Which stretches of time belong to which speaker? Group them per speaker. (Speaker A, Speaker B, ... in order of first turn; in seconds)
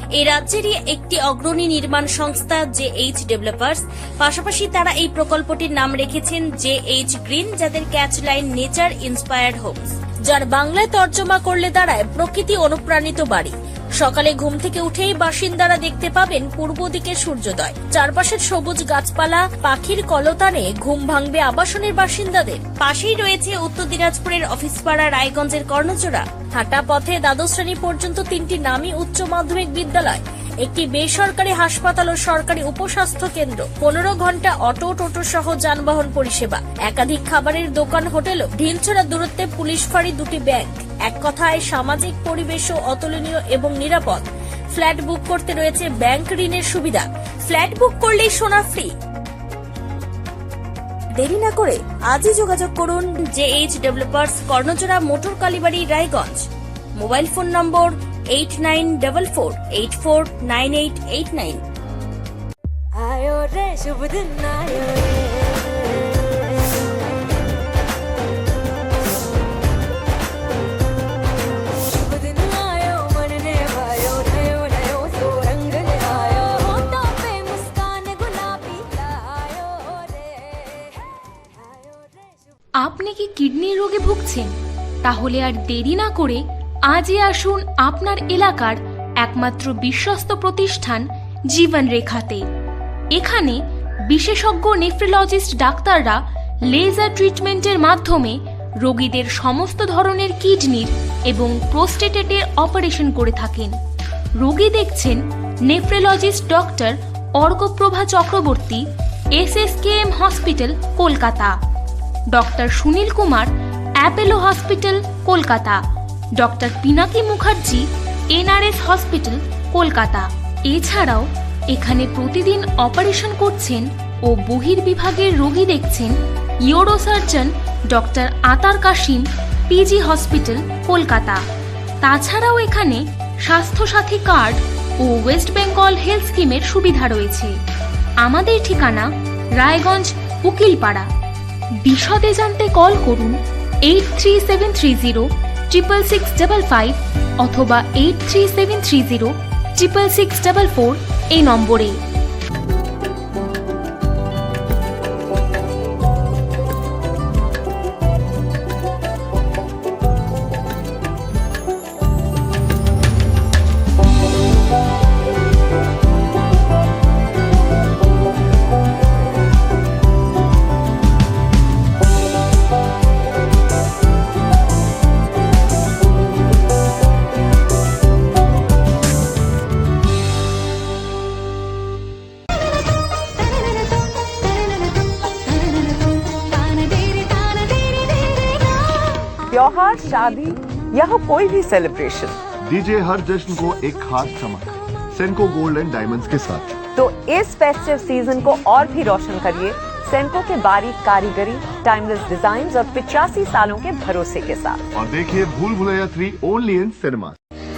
Speaker A: 0.1-48.9, 51.2-56.5, 57.0-61.6, 63.7-64.5
Speaker B: 63.0-63.6, 64.8-65.7, 72.0-78.8, 79.4-79.8
Speaker C: 82.8-84.5, 85.0-92.4, 93.1-93.6, 94.1-96.2, 96.7-103.7, 104.4-108.8, 109.3-111.5, 112.3-113.5, 114.0-115.8, 116.4-126.1, 126.7-131.4, 132.0-137.5, 138.2-141.1, 141.8-143.3, 143.8-151.9
Speaker D: 189.5-192.4, 196.9-204.8
Speaker E: 192.7-196.7, 204.9-207.4